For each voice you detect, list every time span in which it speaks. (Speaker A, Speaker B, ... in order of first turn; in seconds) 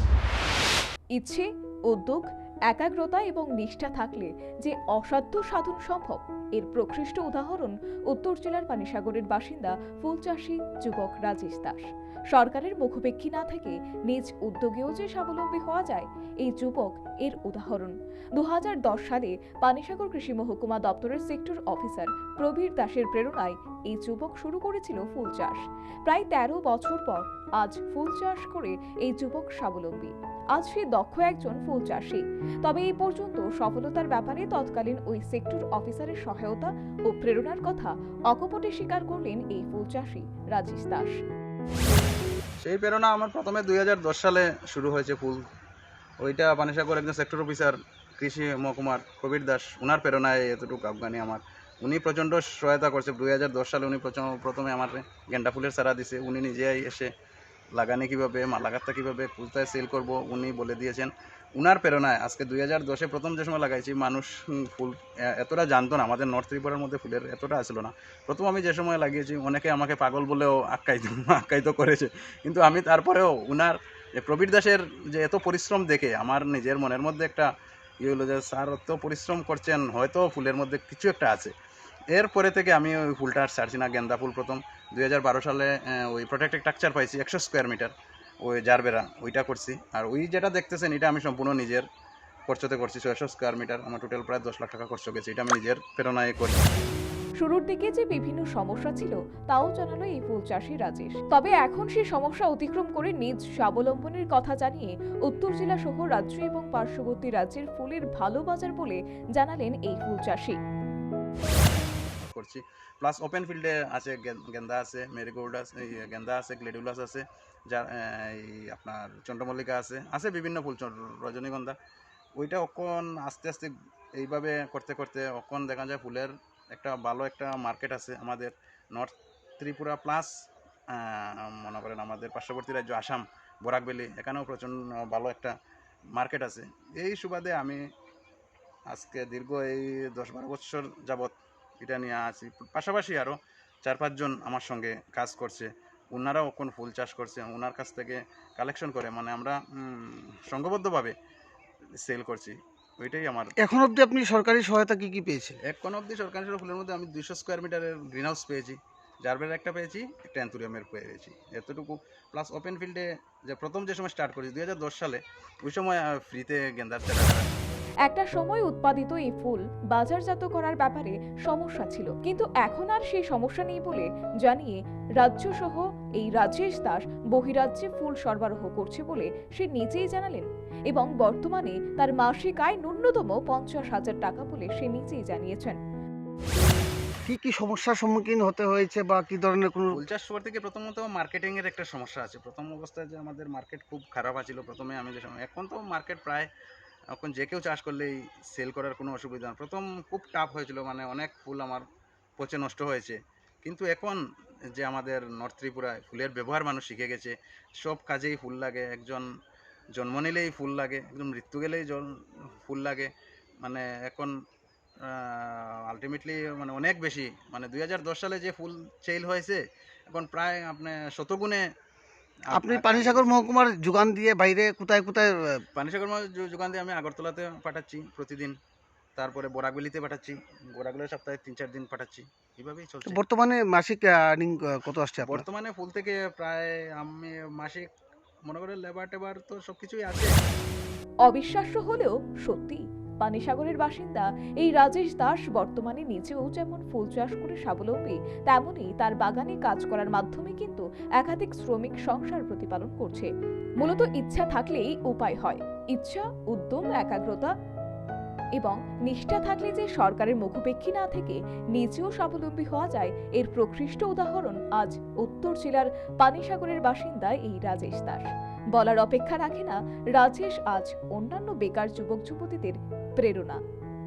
Speaker A: 1.2-41.2, 97.4-110.6, 168.1-185.8, 241.3-253.3, 253.8-257.5, 258.6-273.6
Speaker B: 42.6-45.4, 46.2-57.1, 57.8-77.5, 78.0-81.5, 82.1-87.9, 88.4-91.9, 92.5-96.7, 112.2-121.8, 122.4-130.3, 130.9-135.5, 136.2-137.8, 138.9-151.2, 152.0-153.5, 155.7-167.5, 189.9-196.5, 197.1-201.8, 202.4-204.2, 204.8-209.3, 210.0-213.1, 213.6-214.3, 215.1-221.7, 222.5-223.3, 225.8-228.6, 229.2-233.2, 235.2-237.9, 238.5-240.3
Speaker C: 153.6-155.6, 187.2-190.0, 222.5-225.6, 233.1-235.4